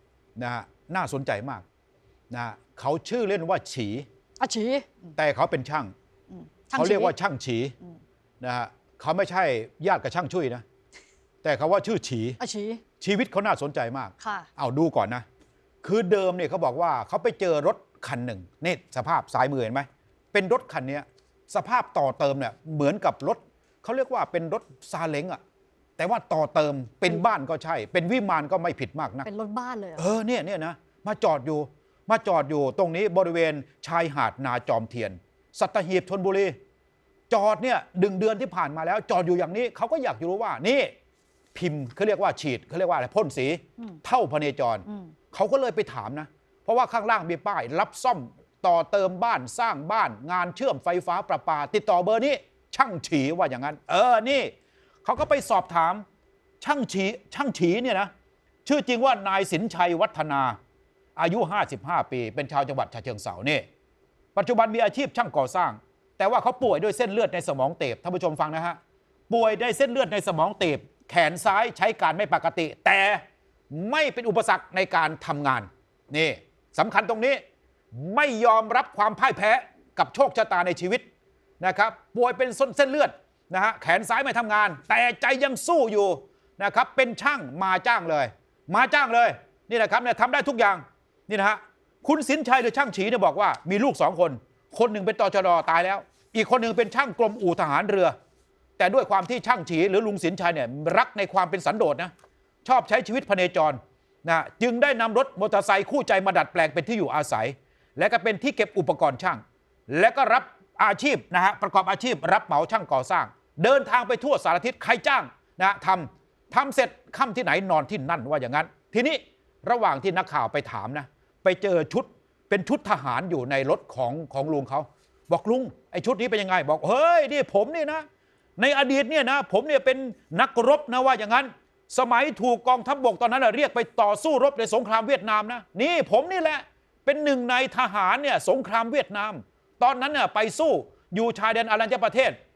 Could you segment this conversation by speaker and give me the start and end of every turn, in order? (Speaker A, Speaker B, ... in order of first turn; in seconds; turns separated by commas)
Speaker A: 0.3-1.6, Speaker A: 2.3-4.0, Speaker B: 4.4-5.1, Speaker A: 5.2-5.9, Speaker B: 6.3-7.1, Speaker A: 6.7-7.7, Speaker A: 8.4-10.6, Speaker A: 11.4-12.4, Speaker B: 12.4-12.8, Speaker A: 13.0-15.2, Speaker B: 14.2-14.5, Speaker A: 15.8-25.4, Speaker A: 26.0-29.3, Speaker B: 29.2-30.1, Speaker A: 30.0-36.5, Speaker A: 37.3-40.9, Speaker A: 41.5-54.5, Speaker B: 44.9-45.1, Speaker A: 55.0-56.0, Speaker A: 56.6-58.1, Speaker A: 58.6-60.6, Speaker A: 61.2-63.6, Speaker A: 64.3-68.8, Speaker A: 69.3-77.4, Speaker A: 77.9-81.1, Speaker A: 81.6-98.1, Speaker A: 98.8-102.1, Speaker A: 102.7-128.1, Speaker A: 128.6-142.4